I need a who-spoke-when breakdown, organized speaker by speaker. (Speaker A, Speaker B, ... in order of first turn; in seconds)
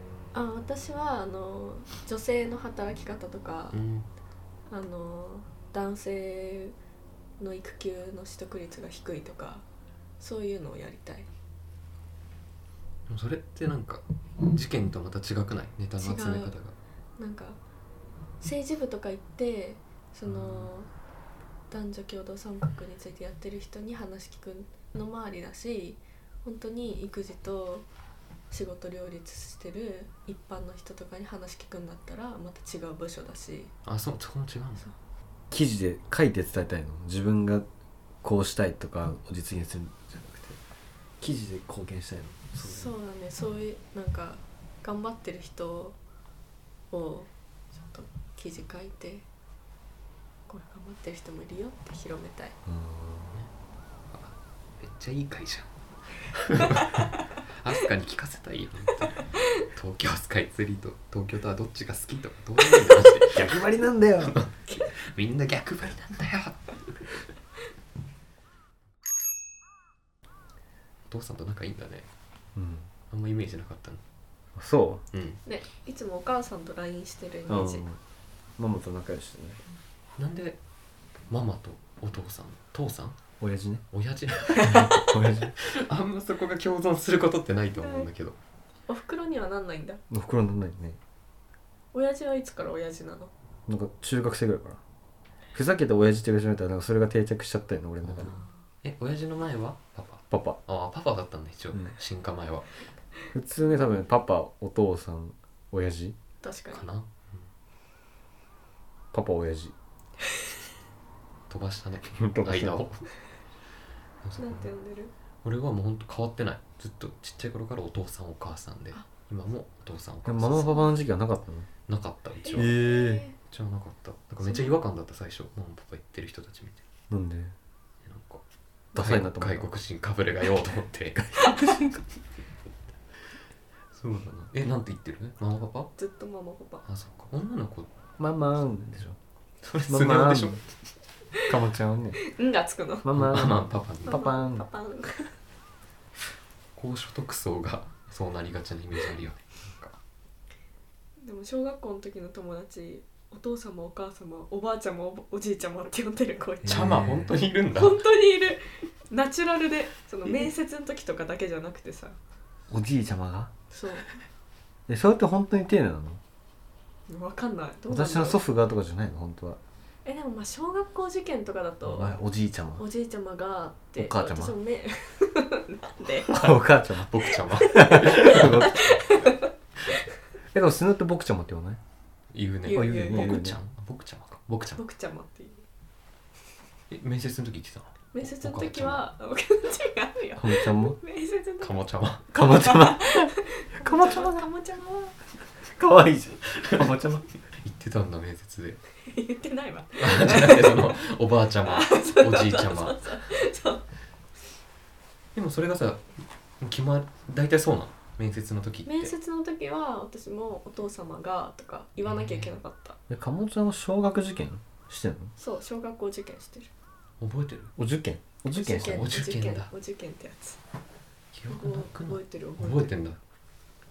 Speaker A: 0.3-3.8, 4.7-6.8, 7.4-9.6, 10.2-11.3, 16.0-16.5, 17.2-17.6, 18.4-20.9, 21.7-27.9, 28.5-33.7, 42.6-46.0, 46.9-49.3, 50.5-52.6, 56.5-57.0, 59.2-59.5, 75.4-77.9, 84.5-84.9, 87.8-88.1, 88.9-90.0, 91.9-93.3, 106.4-106.8, 114.4-115.1, 122.4-123.4, 124.4-124.8, 136.0-136.8, 142.2-143.1, 144.1-145.3, 151.2-156.9, 157.7-162.2, 163.7-164.1, 167.1-168.4, 170.1-172.2, 172.8-176.5, 177.8-179.5, 182.7-183.5, 184.8-185.7, 188.1-191.8, 192.3-195.2, 199.0-200.9, 201.7-203.9, 208.9-213.0, 215.4-216.7, 218.5-220.6, 221.5-223.0
Speaker B: 3.7-4.1, 13.1-16.8, 20.2-20.7, 33.9-34.9, 54.1-55.7, 56.3-63.6, 64.3-67.2, 71.1-72.1, 73.1-74.0, 75.1-75.4, 80.2-80.6, 81.3-83.2, 83.9-88.4, 98.0-102.9, 106.7-107.5, 111.5-113.1, 114.2-114.7, 115.4-120.8, 121.9-126.8, 128.0-128.4, 128.9-132.0, 133.9-135.9, 136.8-137.9, 139.6-140.7, 143.1-144.2, 146.8-149.9, 156.7-158.0, 176.3-179.0, 182.3-184.8, 186.9-189.1, 191.6-192.3, 197.5-198.8, 200.0-203.0, 205.3-209.1, 212.1-212.5, 217.2-217.8, 218.7-219.7, 221.3-223.2
Speaker C: 35.5-37.7, 38.2-40.6, 41.2-42.9, 52.7-53.3, 63.3-64.4, 72.5-72.9, 74.6-75.0, 77.5-78.0, 78.6-79.6, 83.4-83.8, 84.6-85.5, 90.1-91.0, 93.7-94.8, 95.5-98.4, 100.3-100.6, 103.3-106.2, 109.1-109.7, 112.2-112.8, 120.2-121.7, 122.5-123.2, 127.1-127.5, 128.9-129.7, 138.2-139.2, 139.9-140.6, 141.5-142.2, 143.0-144.7, 156.7-157.4, 162.7-163.5, 164.9-166.2, 167.9-169.6, 171.9-172.8, 174.0-174.6, 176.3-179.0, 180.5-181.8, 182.7-183.6, 190.4-191.0, 192.3-194.4, 195.7-197.2, 213.1-215.3, 217.8-219.1